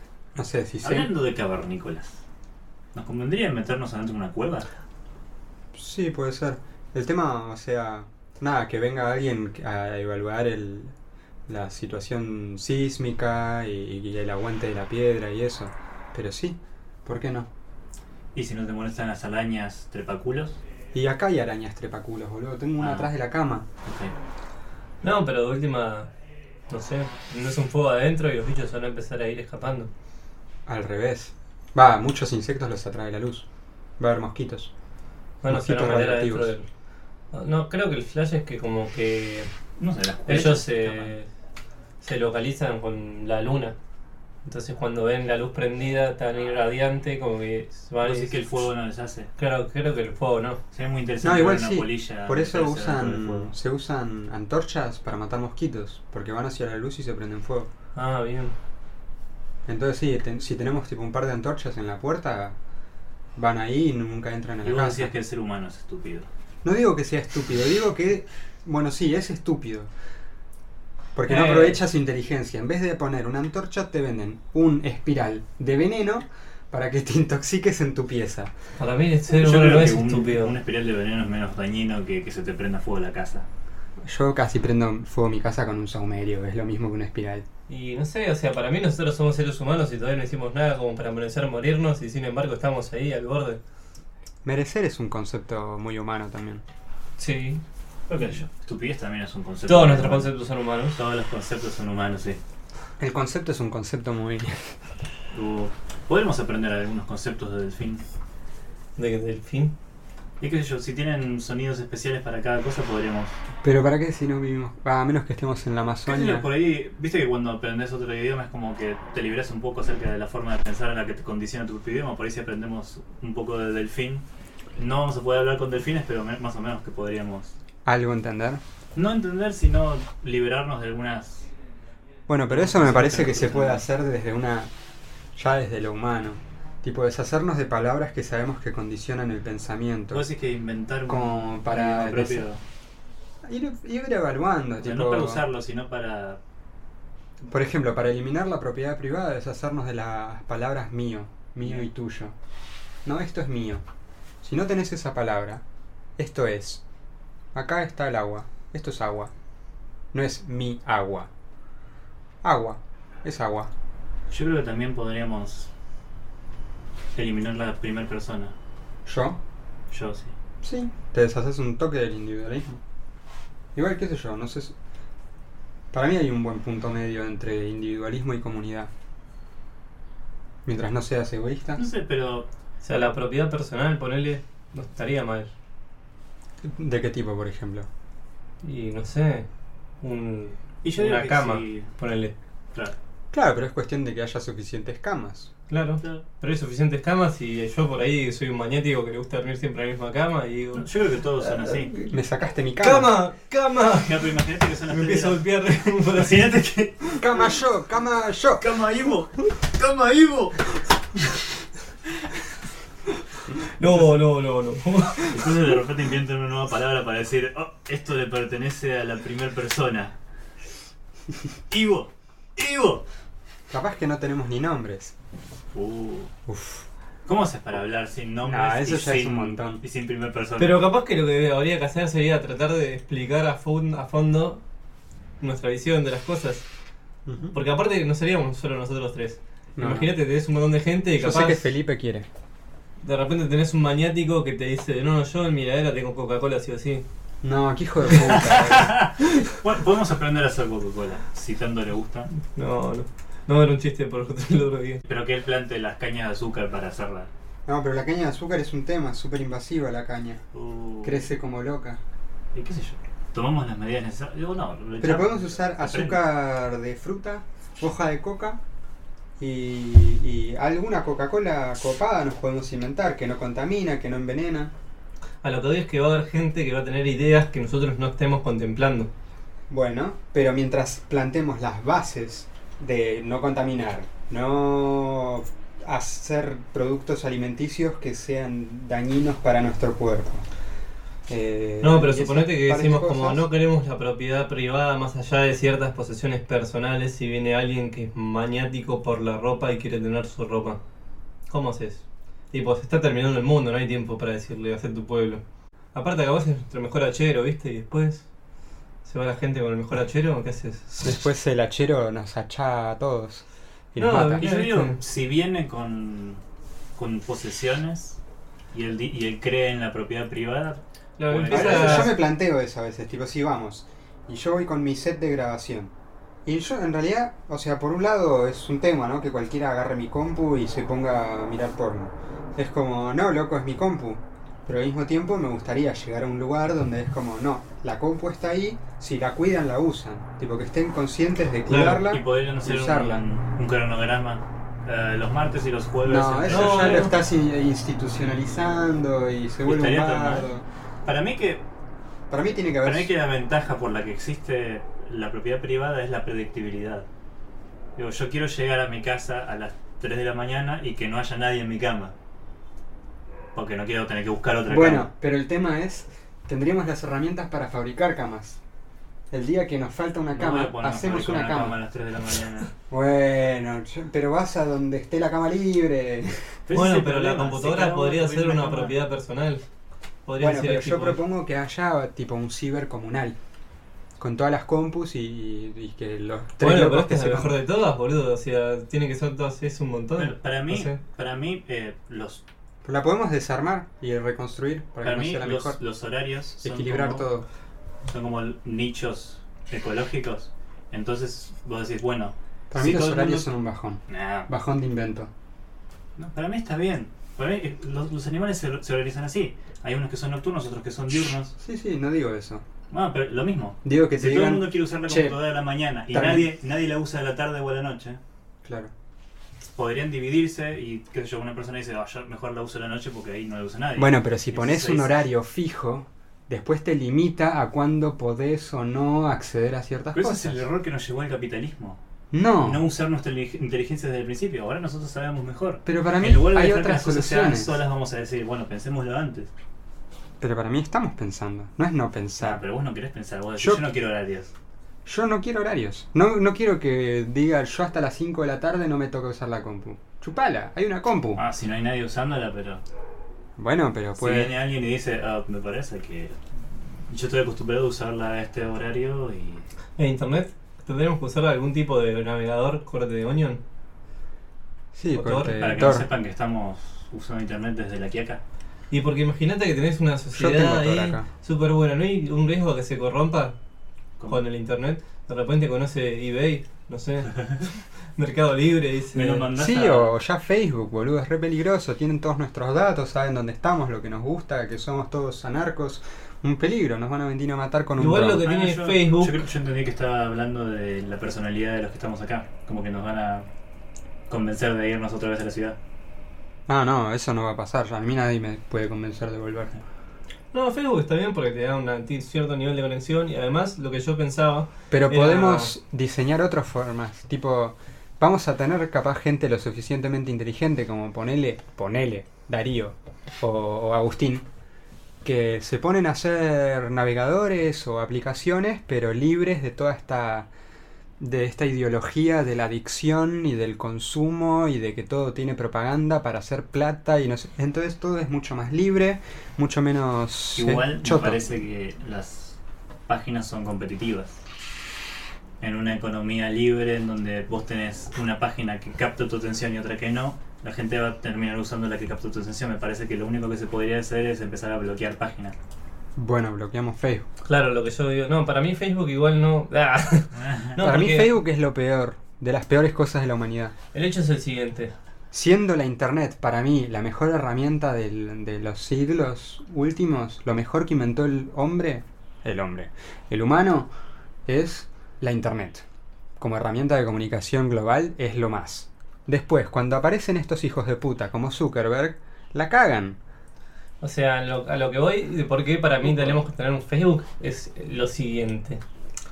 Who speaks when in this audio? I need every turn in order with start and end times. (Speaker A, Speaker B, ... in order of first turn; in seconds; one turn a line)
Speaker A: 0.3-1.1
Speaker B: 0.8-2.2
Speaker B: 2.9-4.7
Speaker A: 5.7-10.9
Speaker A: 11.5-17.5
Speaker B: 18.3-20.6
Speaker A: 20.9-23.6
Speaker B: 22.8-23.1
Speaker B: 23.8-24.1
Speaker C: 25.0-26.1
Speaker C: 26.7-29.9
Speaker A: 30.7-33.5
Speaker A: 34.0-34.7
Speaker C: 35.4-36.7
Speaker A: 35.5-36.5
Speaker C: 37.3-39.5
Speaker B: 39.8-41.1
Speaker C: 40.3-41.3
Speaker C: 42.0-43.7
Speaker C: 44.4-48.3
Speaker B: 48.0-49.3
Speaker C: 49.4-50.6
Speaker B: 50.7-53.5
Speaker A: 51.2-57.7
Speaker C: 57.9-58.5
Speaker A: 59.7-62.5
Speaker A: 63.4-65.1
Speaker B: 64.6-66.3
Speaker A: 66.6-69.9
Speaker A: 71.1-78.5
Speaker C: 71.3-71.8
Speaker C: 78.8-80.5
Speaker B: 79.3-83.5
Speaker A: 84.0-87.5
Speaker C: 87.7-93.6
Speaker A: 94.4-96.6
Speaker C: 97.2-97.6
Speaker B: 98.1-100.3
Speaker C: 99.7-101.0
Speaker B: 100.9-102.4
Speaker A: 103.0-104.8
Speaker B: 105.3-108.0
Speaker C: 109.0-109.7
Speaker B: 110.4-113.3
Speaker A: 113.6-116.5
Speaker B: 116.0-127.5
Speaker A: 127.8-128.6
Speaker B: 128.9-131.5
Speaker A: 132.3-134.7
Speaker B: 132.5-133.8
Speaker A: 135.3-140.2
Speaker B: 140.1-142.6
Speaker A: 141.1-142.4
Speaker A: 143.4-145.4
Speaker B: 144.8-146.4
Speaker A: 147.4-152.3
Speaker A: 153.0-153.8
Speaker A: 154.4-155.6
Speaker A: 156.2-156.8
Speaker A: 157.5-159.3
Speaker A: 160.1-161.3
Speaker A: 162.4-163.7
Speaker B: 164.3-165.7
Speaker B: 167.1-168.5
Speaker A: 169.1-169.4
Speaker B: 169.9-170.3
Speaker A: 170.6-172.8
Speaker A: 173.7-174.7
Speaker A: 175.9-178.9
Speaker A: 180.7-181.8
Speaker B: 181.8-182.5
Speaker C: 182.8-185.5
Speaker A: 186.6-187.9
Speaker C: 188.6-189.5
Speaker C: 190.0-192.3
Speaker B: 190.8-191.9
Speaker A: 193.3-195.5
Speaker C: 195.7-200.9
Speaker B: 200.7-201.9
Speaker C: 201.4-202.1
Speaker A: 202.1-203.1
Speaker C: 202.8-204.2
Speaker B: 204.0-207.2
Speaker C: 204.9-206.4
Speaker A: 207.2-208.7
Speaker B: 208.6-210.8
Speaker C: 213.5-215.5
Speaker B: 215.2-220.1
Speaker B: 221.7-223.0
Speaker A: 223.7-225.1
Speaker B: 225.7-226.3
Speaker A: 226.5-226.8
Speaker B: 227.2-230.8
Speaker A: 228.4-229.8
Speaker C: 230.6-234.6
Speaker C: 235.4-236.7
Speaker A: 237.2-237.6
Speaker C: 237.5-241.6
Speaker A: 239.8-240.1
Speaker A: 241.2-242.3
Speaker C: 243.0-247.0
Speaker A: 247.4-248.9
Speaker B: 248.2-252.3
Speaker C: 252.4-255.0
Speaker B: 255.1-257.3
Speaker A: 257.6-260.4
Speaker B: 260.5-261.3
Speaker A: 261.0-262.0
Speaker B: 262.5-266.2
Speaker A: 265.0-268.6
Speaker A: 269.4-274.7
Speaker C: 275.4-279.1
Speaker A: 279.7-290.4
Speaker A: 291.3-293.4
Speaker C: 291.8-300.8
Speaker C: 301.5-305.4
Speaker C: 305.9-308.2
Speaker C: 309.0-311.0
Speaker A: 311.0-314.5
Speaker C: 314.0-315.0
Speaker B: 314.3-316.4
Speaker B: 316.9-318.2
Speaker B: 318.7-322.1
Speaker C: 321.2-322.1
Speaker A: 321.5-325.9
Speaker A: 326.4-343.2
Speaker C: 341.7-342.0
Speaker B: 341.9-347.1
Speaker A: 346.0-350.6
Speaker C: 346.5-347.1
Speaker B: 349.6-350.5
Speaker B: 351.0-351.6
Speaker A: 352.3-353.1
Speaker B: 352.8-357.1
Speaker B: 357.9-362.1
Speaker B: 363.5-365.1
Speaker A: 364.7-368.6
Speaker A: 369.3-371.8
Speaker B: 370.3-372.7
Speaker A: 372.9-376.6
Speaker B: 376.7-378.9
Speaker C: 376.7-379.6
Speaker C: 380.2-381.2
Speaker A: 380.4-383.4
Speaker A: 384.2-387.5
Speaker C: 386.6-391.0
Speaker B: 390.1-392.4
Speaker A: 392.8-395.8
Speaker B: 395.0-397.3
Speaker A: 396.6-397.4
Speaker B: 398.1-403.5
Speaker A: 402.7-405.3
Speaker B: 404.1-404.5
Speaker B: 406.2-411.5
Speaker A: 411.6-412.6
Speaker B: 412.9-418.2
Speaker A: 413.8-415.4
Speaker A: 416.1-416.5
Speaker A: 418.6-418.9
Speaker B: 419.8-425.1
Speaker A: 424.0-430.6
Speaker B: 430.1-432.0
Speaker A: 432.3-432.8
Speaker B: 432.6-439.5
Speaker A: 435.9-437.8
Speaker A: 440.4-442.6
Speaker B: 442.4-444.5
Speaker A: 443.6-443.8
Speaker A: 445.0-451.4
Speaker B: 451.4-452.8
Speaker A: 453.6-454.6
Speaker B: 454.1-456.4
Speaker B: 457.0-459.7
Speaker C: 460.0-463.6
Speaker A: 464.9-466.1
Speaker C: 465.1-465.8
Speaker B: 465.6-468.4
Speaker C: 468.9-473.6
Speaker A: 470.3-471.3
Speaker C: 474.3-479.4
Speaker B: 477.3-477.6
Speaker B: 479.1-480.1
Speaker A: 479.5-488.4
Speaker C: 488.0-489.4
Speaker B: 488.4-493.5
Speaker B: 494.3-495.8
Speaker A: 496.7-499.7
Speaker C: 500.5-505.7
Speaker A: 504.9-514.5
Speaker A: 515.2-520.5
Speaker A: 521.2-531.4
Speaker B: 530.5-534.4
Speaker B: 535.6-545.6
Speaker A: 546.1-547.3
Speaker C: 547.4-551.3
Speaker B: 550.3-550.8
Speaker A: 550.8-553.7
Speaker C: 553.9-554.9
Speaker A: 555.3-563.9
Speaker A: 564.5-565.8
Speaker A: 566.4-573.2
Speaker C: 574.0-578.8